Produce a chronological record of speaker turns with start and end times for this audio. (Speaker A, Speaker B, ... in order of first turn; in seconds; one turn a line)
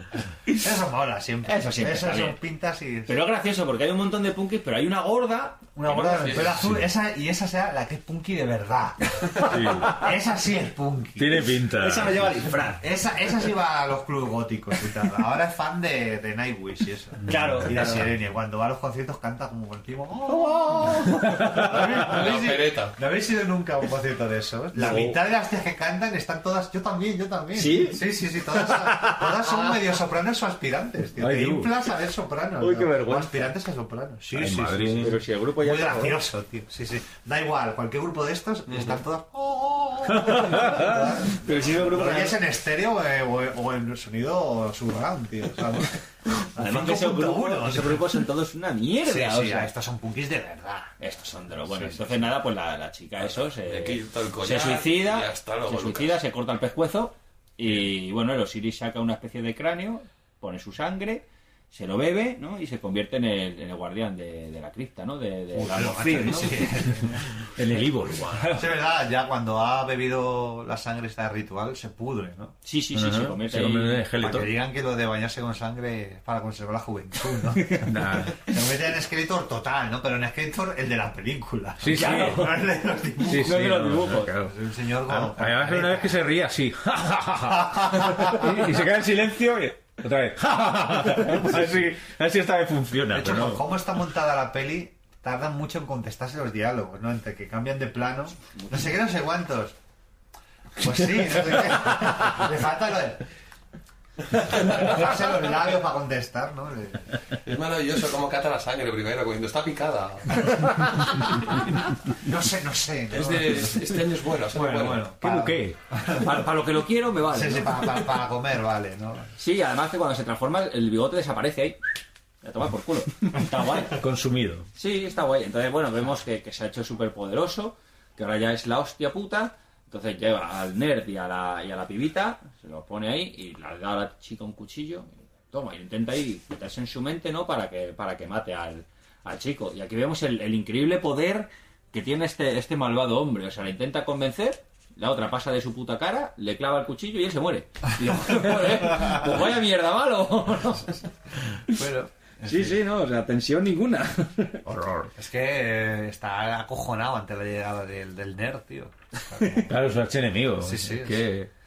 Speaker A: 0.5-3.2
Speaker B: 1.4-2.4
Speaker B: 3.1-6.4
Speaker A: 5.8-11.5
Speaker C: 6.0-6.6
Speaker D: 9.4-10.0
Speaker D: 11.2-12.4
Speaker B: 11.8-12.8
Speaker A: 12.6-48.2
Speaker D: 17.3-17.6
Speaker B: 17.3-18.1
Speaker B: 20.3-21.2
Speaker D: 21.2-21.9
Speaker C: 21.7-23.0
Speaker B: 24.8-25.2
Speaker B: 27.5-29.7
Speaker D: 31.2-31.7
Speaker B: 32.6-33.5
Speaker D: 34.3-35.2
Speaker B: 35.0-36.2
Speaker D: 40.2-41.0
Speaker B: 40.7-42.4
Speaker B: 46.6-49.7
Speaker A: 49.0-50.9
Speaker B: 51.0-66.7
Speaker A: 51.7-52.3
Speaker C: 53.5-56.2
Speaker A: 65.5-67.5
Speaker D: 67.5-68.6
Speaker A: 68.5-72.6
Speaker B: 72.6-74.0
Speaker D: 72.9-74.5
Speaker A: 74.2-83.7
Speaker D: 77.8-78.4
Speaker D: 81.8-82.6
Speaker B: 81.9-82.6
Speaker B: 83.2-84.3
Speaker D: 83.2-93.7
Speaker A: 84.4-86.2
Speaker A: 87.6-88.7
Speaker A: 93.1-99.8
Speaker B: 98.6-98.9
Speaker A: 100.8-103.3
Speaker A: 104.3-107.2
Speaker C: 107.4-110.7
Speaker A: 112.1-113.9
Speaker C: 113.1-115.1
Speaker A: 114.5-116.5
Speaker D: 115.2-115.8
Speaker B: 116.2-118.0
Speaker A: 117.3-119.3
Speaker B: 119.4-121.8
Speaker B: 122.4-124.0
Speaker D: 123.9-124.7
Speaker B: 124.8-151.0
Speaker A: 151.6-152.8
Speaker B: 152.4-154.6
Speaker D: 154.7-155.1
Speaker A: 155.2-159.9
Speaker D: 159.7-161.5
Speaker A: 160.6-161.3